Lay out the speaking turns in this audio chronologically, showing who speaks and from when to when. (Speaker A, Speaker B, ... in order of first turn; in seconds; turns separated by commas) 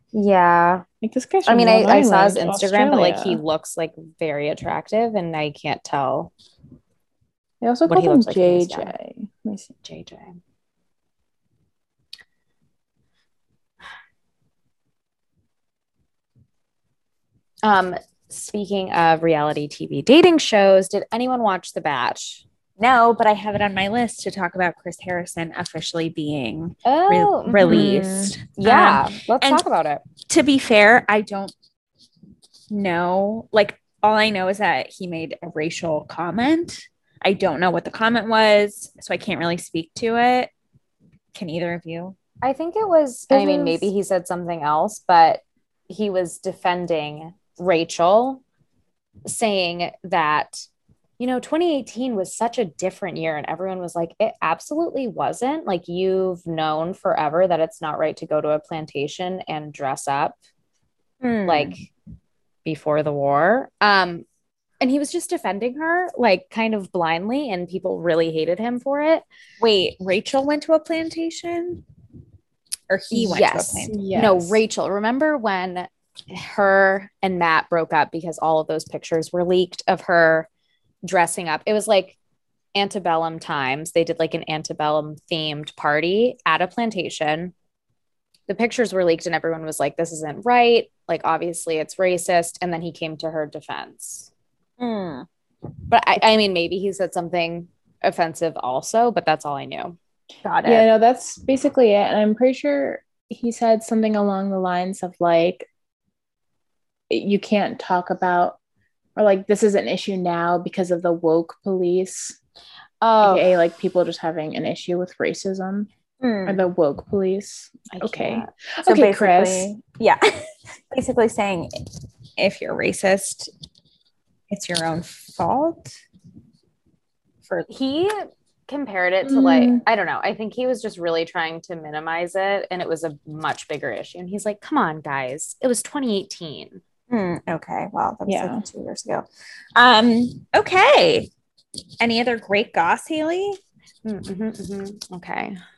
Speaker A: 0.1-0.8, Speaker B: 1.0-3.4, Speaker A: 1.4-6.3, Speaker B: 7.6-9.7, Speaker A: 7.9-8.9, Speaker A: 9.8-10.4, Speaker A: 17.6-22.4, Speaker C: 22.8-29.6, Speaker A: 26.8-30.0, Speaker B: 27.6-28.3, Speaker C: 30.2-31.5, Speaker C: 32.7-40.5, Speaker C: 41.3-42.2, Speaker A: 42.4-48.4, Speaker B: 43.3-43.9, Speaker A: 49.2-50.6, Speaker A: 51.2-60.4, Speaker C: 61.2-61.7, Speaker A: 61.4-61.9, Speaker A: 62.6-64.2, Speaker A: 64.8-69.2, Speaker C: 69.6-71.8, Speaker C: 72.9-73.9, Speaker A: 73.1-80.5, Speaker B: 73.9-74.6, Speaker A: 81.0-82.2, Speaker A: 82.7-87.5, Speaker A: 88.5-94.3, Speaker C: 94.8-95.3, Speaker A: 95.9-100.0, Speaker C: 100.4-100.9, Speaker B: 100.7-105.7, Speaker B: 107.1-108.6, Speaker B: 109.2-112.4, Speaker A: 113.0-113.5, Speaker B: 113.2-115.9, Speaker C: 116.2-116.6, Speaker B: 116.5-119.7, Speaker A: 117.9-118.5, Speaker C: 118.8-121.7, Speaker C: 122.4-123.5, Speaker C: 124.5-126.0, Speaker A: 127.7-136.8, Speaker B: 129.2-129.8, Speaker C: 137.1-141.3, Speaker B: 138.3-138.6, Speaker C: 142.0-143.6, Speaker A: 144.0-145.6